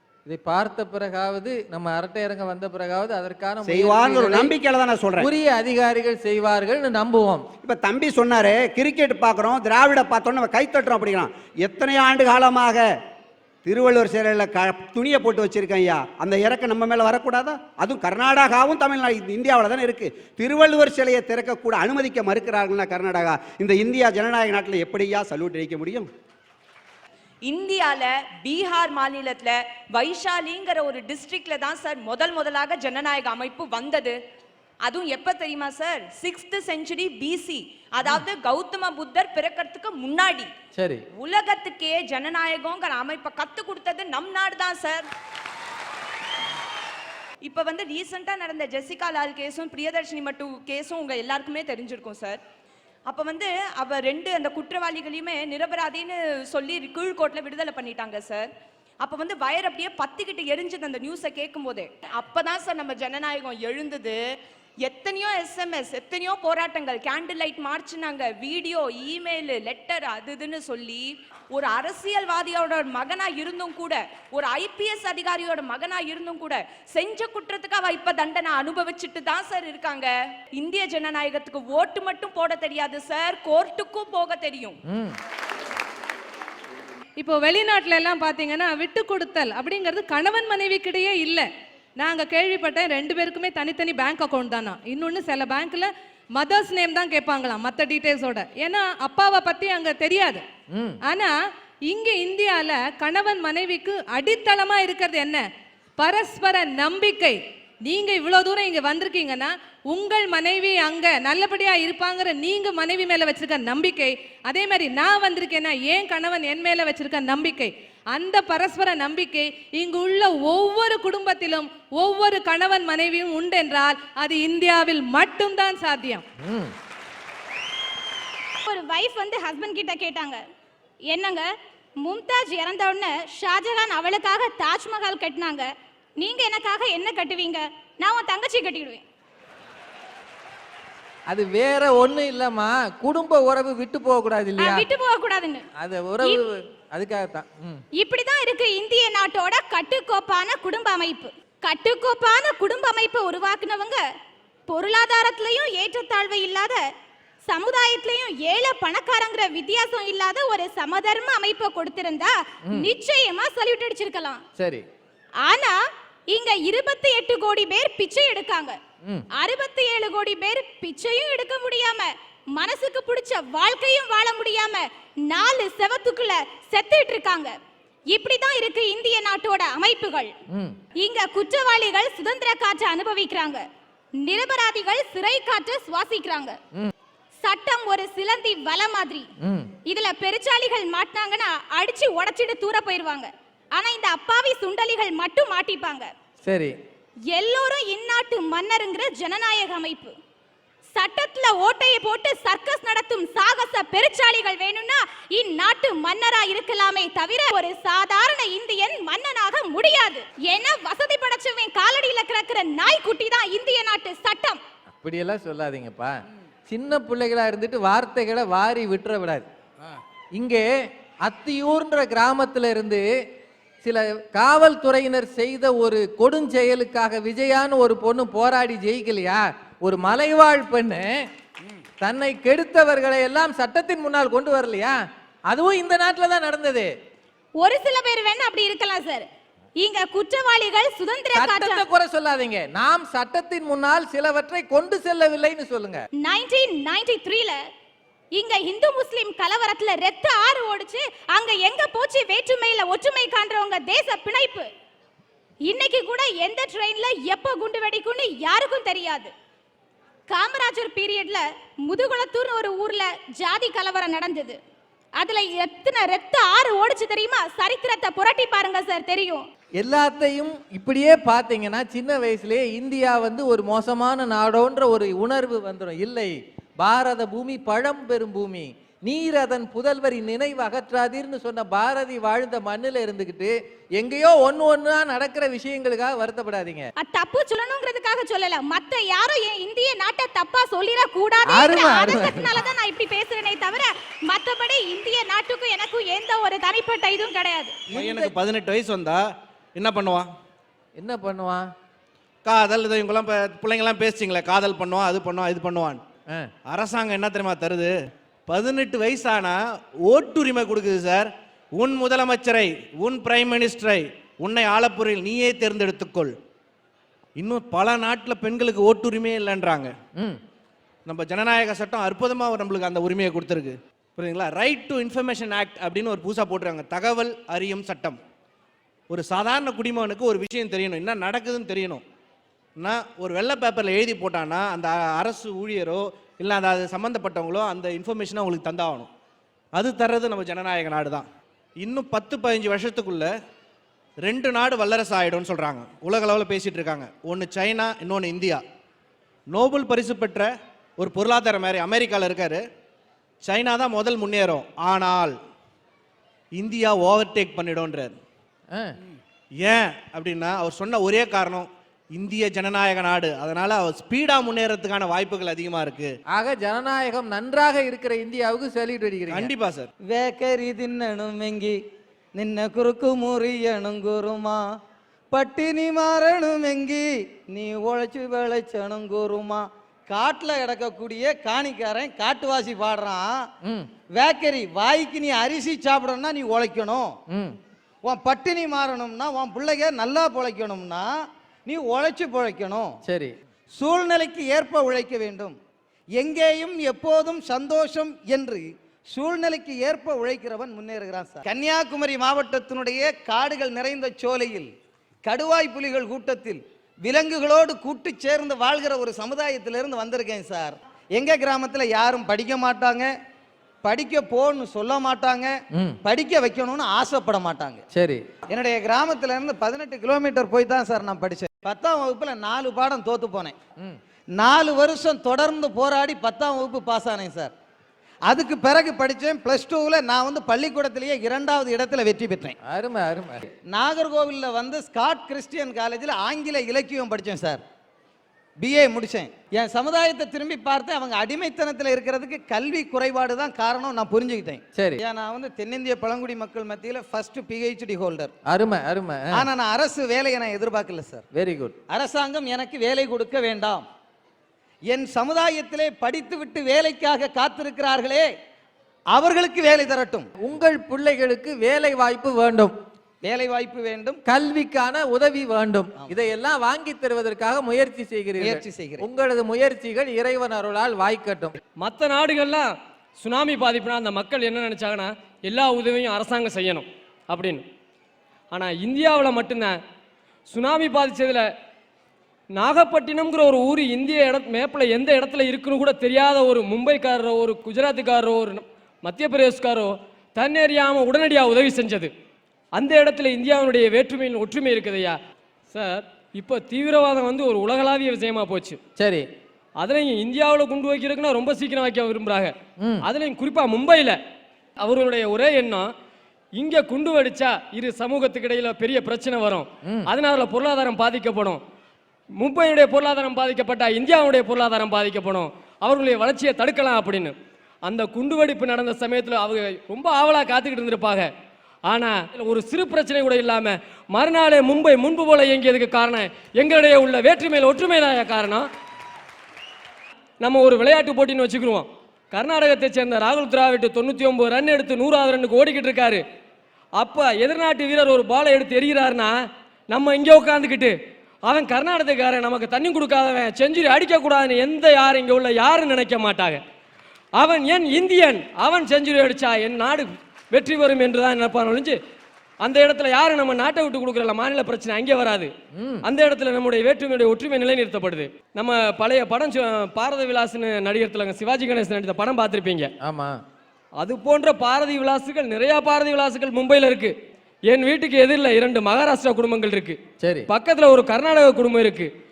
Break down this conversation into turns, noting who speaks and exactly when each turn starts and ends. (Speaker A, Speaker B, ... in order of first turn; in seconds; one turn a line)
Speaker A: 0.2-4.5
Speaker B: 3.6-5.3
Speaker A: 5.2-7.5
Speaker B: 7.6-12.8
Speaker B: 13.7-26.1
Speaker C: 27.4-34.2
Speaker C: 34.8-40.5
Speaker A: 40.8-41.0
Speaker C: 41.2-45.0
Speaker C: 47.4-52.4
Speaker C: 53.1-58.5
Speaker C: 59.0-64.2
Speaker C: 64.8-84.8
Speaker A: 84.9-85.2
Speaker D: 87.2-91.5
Speaker D: 92.0-100.4
Speaker D: 101.0-101.3
Speaker D: 101.9-105.5
Speaker D: 106.0-126.2
Speaker A: 126.4-126.7
Speaker E: 128.7-130.4
Speaker E: 131.1-139.0
Speaker A: 141.3-144.8
Speaker E: 144.6-145.6
Speaker A: 145.8-146.4
Speaker A: 146.9-147.8
Speaker E: 147.9-154.1
Speaker E: 154.7-156.8
Speaker E: 157.4-164.4
Speaker A: 162.7-162.9
Speaker A: 164.6-164.8
Speaker E: 165.4-165.8
Speaker E: 166.3-168.8
Speaker E: 169.3-177.6
Speaker E: 178.1-180.3
Speaker A: 180.5-180.8
Speaker E: 181.0-183.7
Speaker E: 184.2-186.6
Speaker E: 187.4-189.3
Speaker A: 189.4-189.7
Speaker E: 189.8-196.1
Speaker A: 196.4-196.8
Speaker E: 197.3-200.1
Speaker E: 200.9-214.6
Speaker A: 215.0-219.4
Speaker A: 220.3-220.7
Speaker A: 221.2-223.1
Speaker A: 223.8-231.2
Speaker A: 232.0-234.9
Speaker A: 235.5-236.9
Speaker E: 237.5-241.8
Speaker A: 241.3-246.1
Speaker E: 246.2-247.6
Speaker E: 248.3-254.7
Speaker E: 255.6-259.3
Speaker E: 260.3-264.6
Speaker E: 265.1-269.5
Speaker A: 269.8-286.9
Speaker E: 286.9-297.8
Speaker A: 291.4-292.6
Speaker F: 297.9-299.2
Speaker A: 297.9-298.3
Speaker F: 299.8-300.3
Speaker A: 300.9-301.6
Speaker F: 302.4-306.0
Speaker F: 306.7-307.9
Speaker F: 308.5-309.6
Speaker F: 310.1-316.3
Speaker F: 317.4-319.9
Speaker F: 321.1-328.2
Speaker F: 329.1-332.0
Speaker F: 332.8-339.1
Speaker F: 339.7-341.3
Speaker F: 341.8-343.3
Speaker F: 344.2-348.6
Speaker F: 349.5-352.6
Speaker F: 353.4-355.3
Speaker F: 356.6-358.2
Speaker F: 359.6-366.1
Speaker A: 366.3-369.5
Speaker F: 369.3-369.9
Speaker G: 370.1-371.8
Speaker G: 372.3-374.6
Speaker G: 375.3-383.4
Speaker G: 384.1-387.2
Speaker A: 387.3-387.6
Speaker G: 388.0-391.1
Speaker G: 391.6-392.9
Speaker A: 393.1-393.4
Speaker G: 393.7-395.6
Speaker G: 396.2-404.7
Speaker G: 405.2-413.1
Speaker G: 413.8-417.8
Speaker A: 417.9-418.2
Speaker G: 418.5-423.6
Speaker G: 424.4-427.5
Speaker G: 428.3-432.5
Speaker A: 432.6-433.5
Speaker G: 433.7-437.6
Speaker G: 438.6-448.3
Speaker A: 444.7-445.0
Speaker A: 448.5-449.5
Speaker G: 449.3-451.2
Speaker A: 451.3-451.7
Speaker G: 451.9-453.9
Speaker G: 454.9-458.3
Speaker G: 459.1-460.3
Speaker A: 460.4-462.7
Speaker G: 463.2-464.2
Speaker A: 464.3-471.6
Speaker G: 468.4-469.0
Speaker H: 471.8-472.7
Speaker H: 473.2-477.6
Speaker H: 478.5-479.8
Speaker H: 480.5-481.4
Speaker H: 482.5-492.1
Speaker H: 492.7-495.1
Speaker H: 495.7-498.8
Speaker A: 499.0-499.2
Speaker H: 499.8-504.2
Speaker A: 502.8-503.0
Speaker H: 504.8-505.9
Speaker H: 506.6-511.6
Speaker H: 512.4-521.3
Speaker H: 521.9-528.7
Speaker H: 530.4-536.2
Speaker H: 537.0-539.3
Speaker H: 539.9-540.9
Speaker H: 541.5-546.6
Speaker H: 547.4-552.0
Speaker H: 552.6-555.5
Speaker A: 555.8-556.0
Speaker H: 556.0-562.9
Speaker A: 563.0-563.4
Speaker H: 564.0-567.1
Speaker H: 567.7-570.0
Speaker A: 570.2-570.5
Speaker H: 570.5-572.1